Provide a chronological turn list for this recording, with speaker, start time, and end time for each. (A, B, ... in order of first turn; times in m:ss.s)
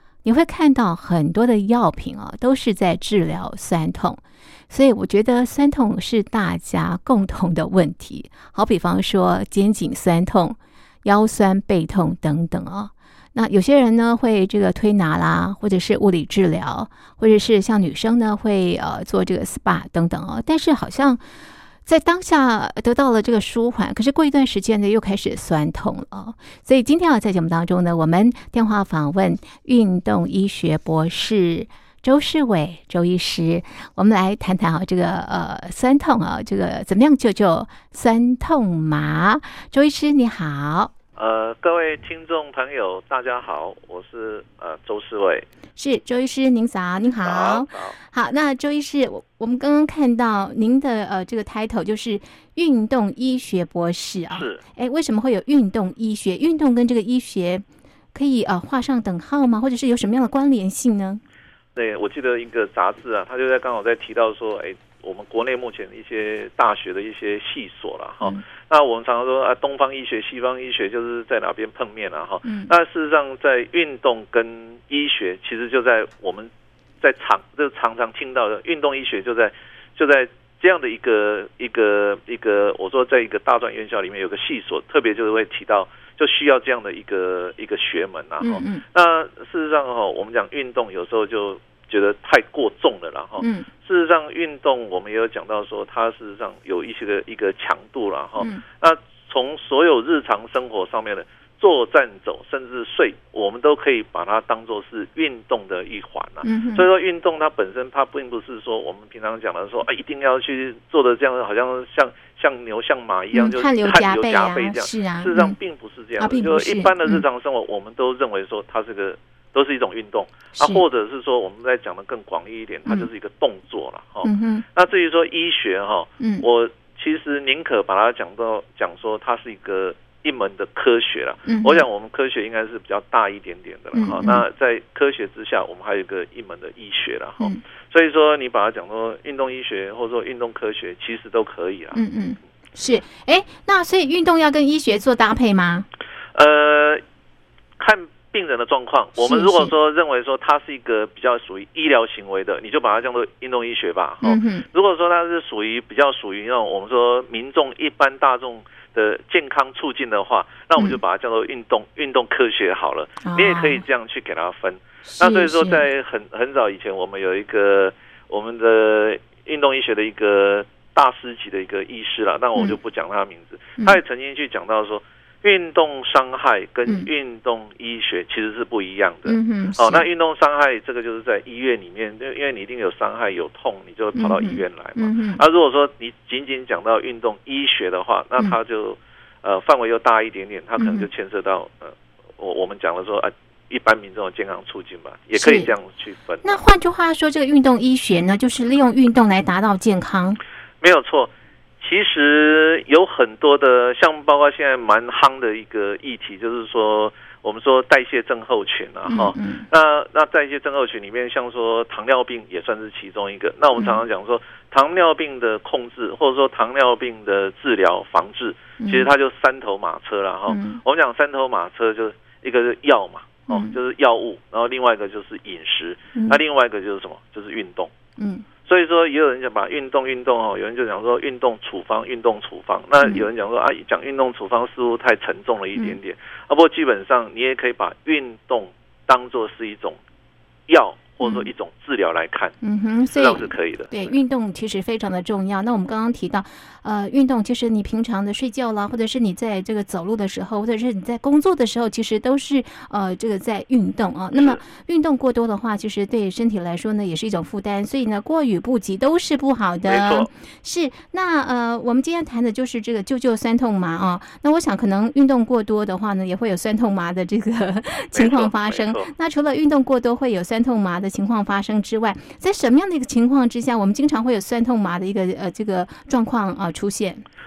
0:00.2-0:21.2 A
0:21.8-0:40.9 A
0:41.2-0:45.5 B
0:45.8-1:01.2 A
0:47.2-0:48.0 B
0:54.3-0:54.6 B
1:01.8-2:22.0 B
1:12.4-1:12.7 A
1:28.4-1:28.8 A
1:33.4-1:33.7 A
1:46.4-1:46.9 A
1:53.3-1:55.6 A
1:56.2-1:57.2 A
2:00.5-2:00.8 A
2:04.2-2:04.6 A
2:06.2-2:06.4 A
2:11.4-2:11.8 A
2:13.9-2:14.4 A
2:21.9-2:25.9 A
2:26.3-2:27.0 B
2:27.8-3:16.6 B
2:29.2-2:29.7 A
2:34.2-2:34.6 A
2:43.2-2:43.8 A
2:45.1-2:45.8 A
2:59.3-3:00.0 A
3:04.2-3:05.4 A
3:10.8-3:11.1 A
3:15.3-3:15.7 A
3:16.4-3:20.4 A
3:20.8-3:47.9 B
3:29.1-3:29.6 A
3:38.8-3:39.1 A
3:40.5-3:40.8 A
3:43.5-3:43.8 A
3:48.2-3:48.4 A
3:48.6-4:00.0 B
4:00.7-4:02.6 B
4:01.2-4:01.5 A
4:02.6-4:37.2 A
4:03.1-4:04.1 B
4:14.3-4:14.6 B
4:19.9-4:20.3 B
4:28.1-4:29.1 B